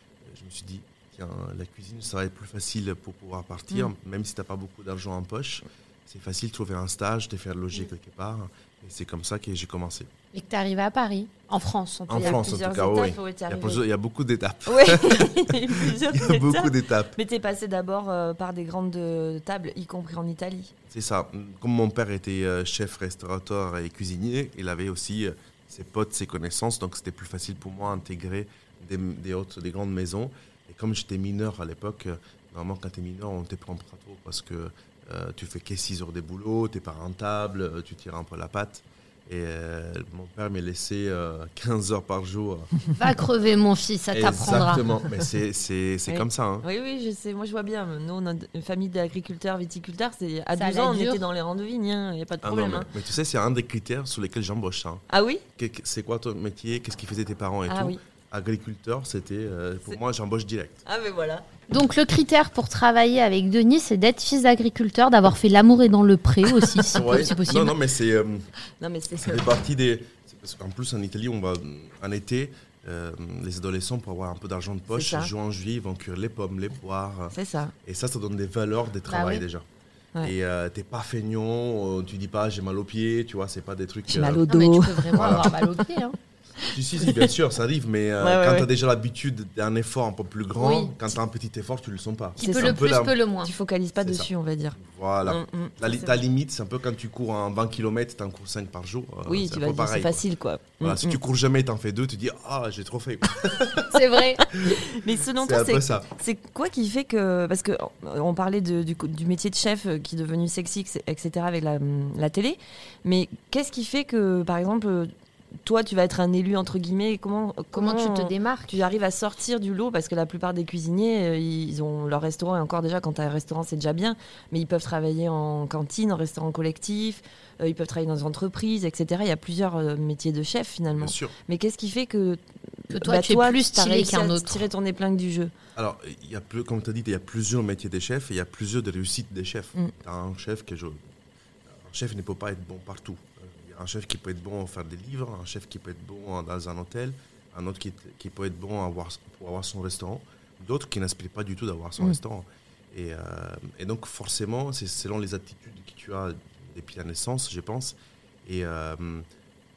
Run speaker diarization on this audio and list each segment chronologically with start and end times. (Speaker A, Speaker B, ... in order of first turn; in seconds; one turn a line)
Speaker A: 0.2-10.1
Speaker B: 10.3-12.4
Speaker A: 12.1-17.2
Speaker C: 12.1-13.8
Speaker C: 14.7-20.7
Speaker A: 20.9-42.7
Speaker B: 42.9-44.8
Speaker A: 44.1-46.7
Speaker C: 46.1-52.9
Speaker B: 50.6-51.2
Speaker A: 52.4-55.0
Speaker C: 55.1-55.4
Speaker A: 55.5-60.8
Speaker C: 57.7-58.0
Speaker C: 60.8-61.5
Speaker B: 61.7-67.8
Speaker C: 66.5-67.0
Speaker A: 66.9-68.5
Speaker C: 68.8-69.6
Speaker A: 69.2-79.7
Speaker C: 74.9-75.3
Speaker C: 77.3-77.7
Speaker B: 79.1-79.4
Speaker A: 80.2-84.5
Speaker C: 84.1-85.8
Speaker B: 84.5-86.2
Speaker A: 85.1-85.6
Speaker C: 86.6-87.3
Speaker A: 86.7-93.1
Speaker C: 88.2-88.7
Speaker B: 90.5-91.0
Speaker B: 92.4-93.5
Speaker C: 92.4-92.8
Speaker C: 93.4-96.2
Speaker A: 94.0-100.2
Speaker C: 99.2-101.2
Speaker A: 100.8-106.1
Speaker B: 103.9-104.5
Speaker C: 104.6-115.1
Speaker C: 115.6-135.5
Speaker B: 117.7-118.7
Speaker A: 130.9-131.3
Speaker B: 132.9-134.6
Speaker A: 135.8-141.0
Speaker A: 141.7-159.3